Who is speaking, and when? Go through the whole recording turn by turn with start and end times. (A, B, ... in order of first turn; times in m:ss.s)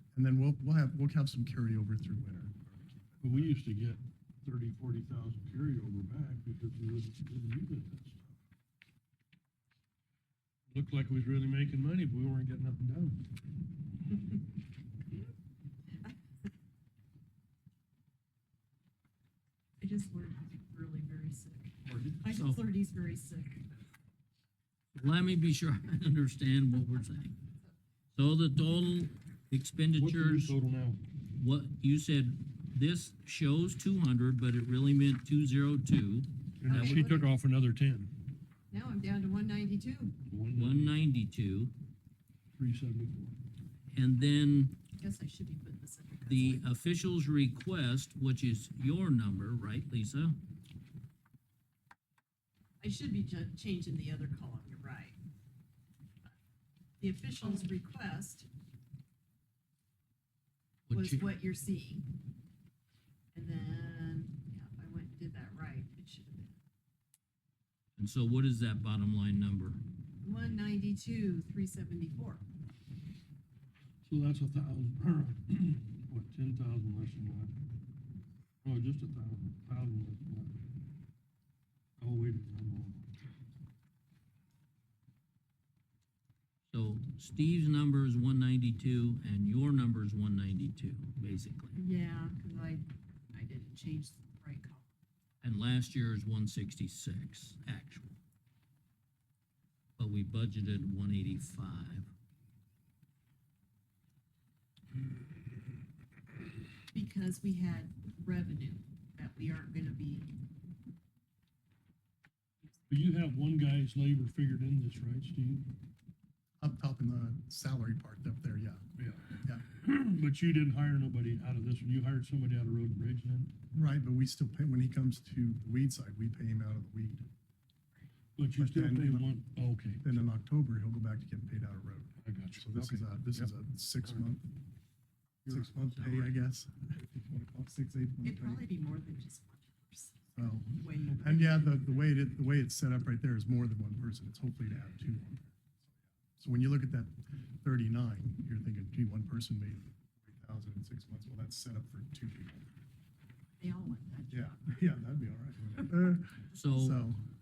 0:00.1-0:03.6 A
0:03.2-0:08.2 B
0:10.7-0:13.3 B
0:19.8-0:23.6 C
0:21.8-0:22.3 B
0:22.3-0:22.6 D
0:24.9-0:27.4 D
0:28.1-0:30.6 D
0:29.9-0:31.0 B
0:31.3-0:37.0 D
0:36.6-0:38.2 B
0:36.7-0:37.3 C
0:38.7-0:40.2 C
0:40.3-0:41.0 B
0:40.5-0:41.7 D
0:42.5-0:43.4 B
0:43.9-0:44.8 D
0:44.9-0:46.6 C
0:46.2-0:50.4 D
0:52.8-0:55.2 C
0:57.0-0:58.5 C
1:00.9-1:01.3 D
1:00.9-1:02.1 C
1:03.3-1:06.6 C
1:08.0-1:09.8 D
1:10.2-1:12.4 C
1:14.0-1:17.6 B
1:18.6-1:20.6 B
1:22.0-1:23.1 B
1:26.7-1:31.8 D
1:31.8-1:34.9 C
1:35.4-1:38.2 D
1:40.0-1:42.1 D
1:46.9-1:50.4 C
1:52.9-1:55.7 B
1:56.6-1:58.8 A
1:59.0-2:03.5 B
2:03.7-2:07.3 A
2:08.4-2:10.3 B
2:08.6-2:09.3 A
2:10.0-2:14.6 A
2:12.2-2:13.5 B
2:15.4-2:16.3 B
2:15.4-2:18.7 A
2:18.2-2:21.9 C
2:20.4-2:25.6 A
2:26.4-2:32.7 A
2:33.6-2:34.6 C
2:34.3-2:37.2 A
2:36.5-2:37.0 D